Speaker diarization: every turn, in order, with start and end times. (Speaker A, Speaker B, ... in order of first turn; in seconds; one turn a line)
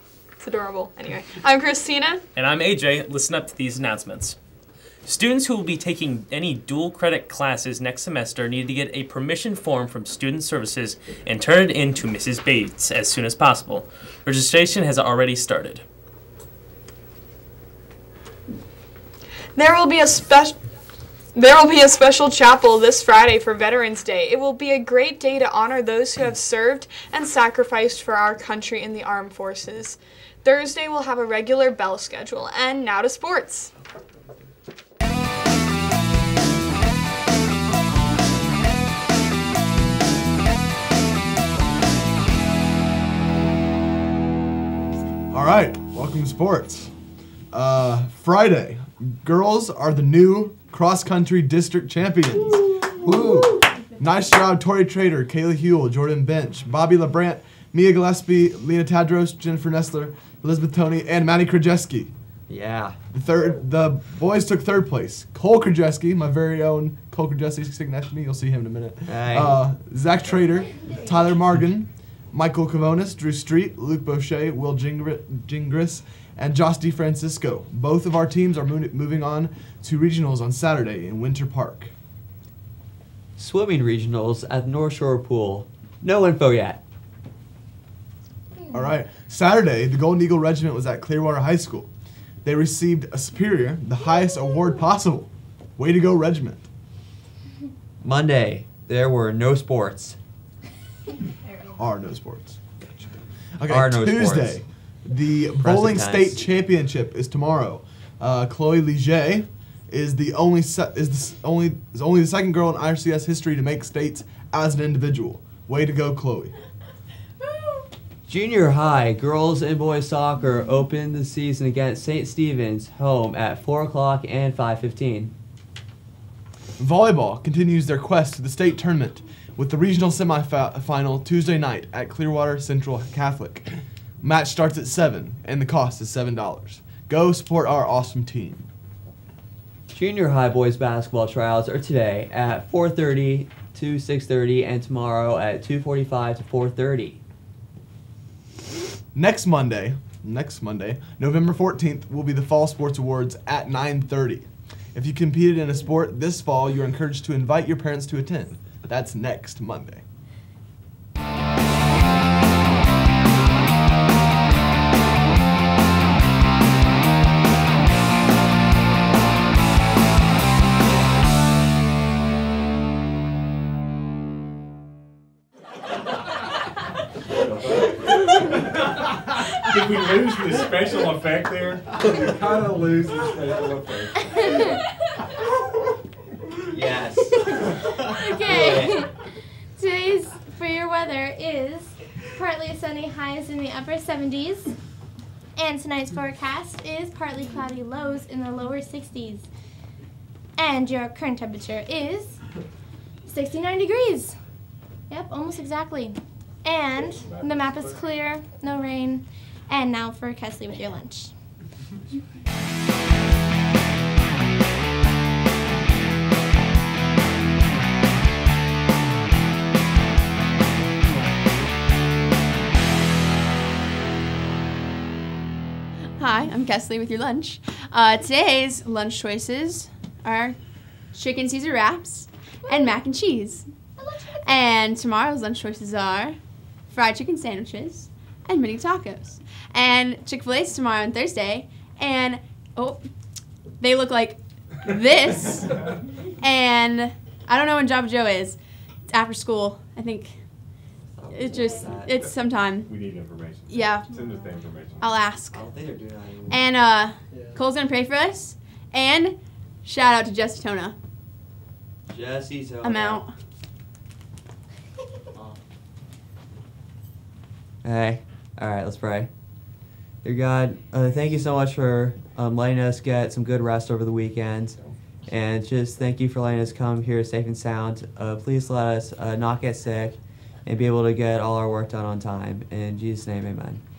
Speaker A: 0.4-2.2
Speaker B: 2.4-4.4
Speaker B: 5.1-15.8
Speaker A: 19.6-20.6
Speaker A: 21.4-33.7
Speaker C: 45.3-46.9
Speaker C: 47.5-62.1
Speaker D: 62.5-63.0
Speaker C: 63.1-81.9
Speaker D: 69.1-69.6
Speaker D: 83.4-86.8
Speaker C: 88.7-91.9
Speaker C: 92.4-96.7
Speaker D: 98.0-100.2
Speaker C: 101.7-103.0
Speaker C: 103.6-116.5
Speaker D: 103.7-104.6
Speaker D: 105.6-106.5
Speaker D: 118.3-125.3
Speaker C: 126.8-133.7
Speaker C: 134.2-138.7
Speaker D: 139.9-147.2
Speaker C: 149.1-160.0
Speaker E: 177.4-184.5
Speaker F: 184.3-184.8
Speaker D: 186.7-187.4
Speaker F: 187.5-189.2
Speaker D: 188.4-189.0
Speaker F: 189.8-194.7
Speaker F: 195.6-199.5
Speaker F: 200.6-202.4
Speaker F: 203.2-204.3
Speaker F: 205.1-211.3
Speaker E: 206.9-208.2
Speaker G: 226.2-230.6
Speaker G: 231.1-233.7
Speaker F: 232.6-233.0
Speaker F: 234.0-234.7
Speaker G: 234.4-243.1
Speaker G: 243.8-250.4
Speaker D: 251.1-252.3
Speaker G: 251.3-252.9
Speaker E: 252.0-255.2
Speaker G: 253.7-254.1
Speaker G: 255.0-255.7
Speaker D: 255.5-256.7
Speaker G: 256.5-260.9
Speaker D: 262.1-263.2
Speaker G: 262.8-263.3
Speaker D: 267.8-269.3
Speaker D: 270.2-283.8